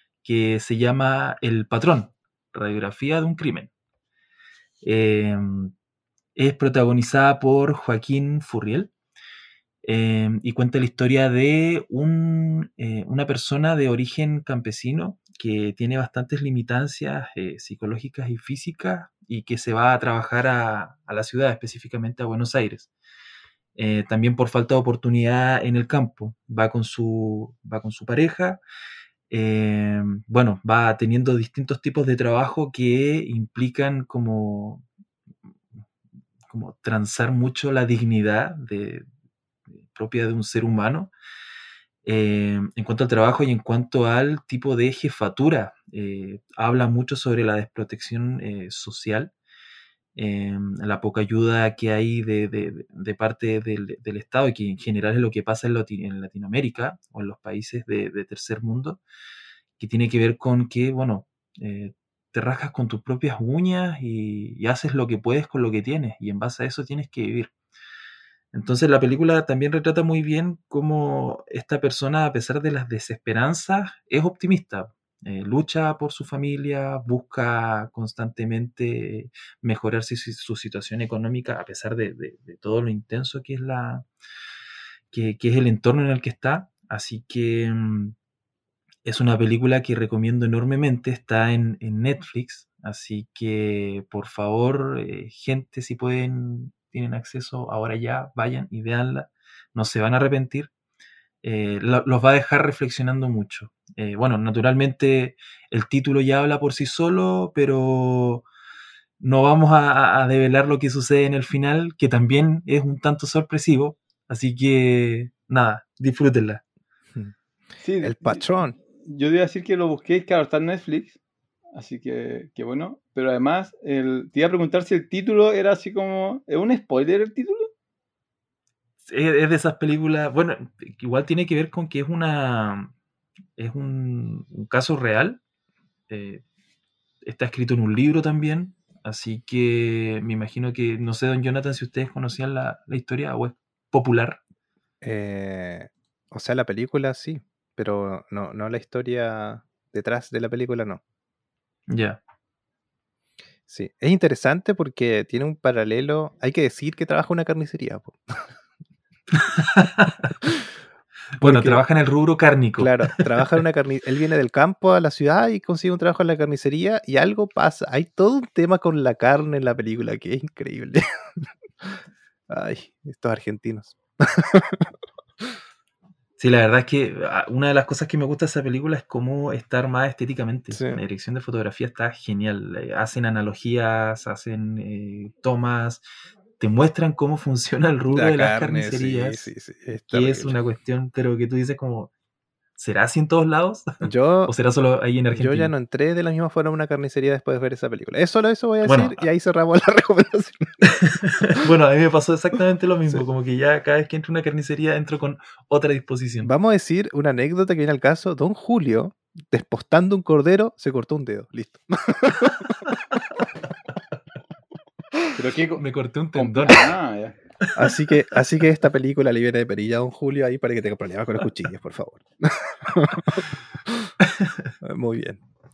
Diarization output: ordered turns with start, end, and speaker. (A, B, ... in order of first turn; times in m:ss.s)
0:00.2-0:03.7 A
0:04.8-0:05.7 A
0:06.4-0:08.9 A
0:09.8-0:22.9 A
0:23.8-0:28.6 A
0:29.3-0:34.8 A
0:36.5-0:39.0 A
0:39.9-0:41.1 A
0:42.0-0:49.3 A
0:50.2-0:59.0 A
0:59.8-1:07.5 A
1:08.5-1:24.1 A
1:25.1-1:28.2 A
1:29.0-1:40.7 A
1:41.4-1:48.5 A
1:49.2-1:56.6 A
1:57.8-2:01.2 B
1:58.0-1:58.8 C
2:01.8-2:07.7 B
2:09.1-2:12.9 A
2:13.6-2:15.4 A
2:16.1-2:16.4 A
2:17.2-2:24.4 A
2:25.0-2:31.0 C
2:31.9-2:32.2 A
2:33.7-2:38.5 C
2:39.3-2:40.5 A
2:41.4-2:43.4 A
2:41.4-2:41.8 C
2:42.8-2:55.5 C
2:56.4-3:06.0 A
3:00.7-3:01.0 C
3:06.6-3:09.5 A
3:08.1-3:10.6 C
3:10.1-3:12.1 A
3:12.8-3:15.7 A
3:14.0-3:14.5 C
3:15.4-3:20.7 C
3:18.8-3:19.2 A
3:20.8-3:26.5 A
3:26.4-3:32.8 C
3:35.4-3:37.4 B
3:35.8-3:37.0 A
3:37.8-3:44.1 C
3:44.3-3:44.7 A
3:44.8-3:45.4 C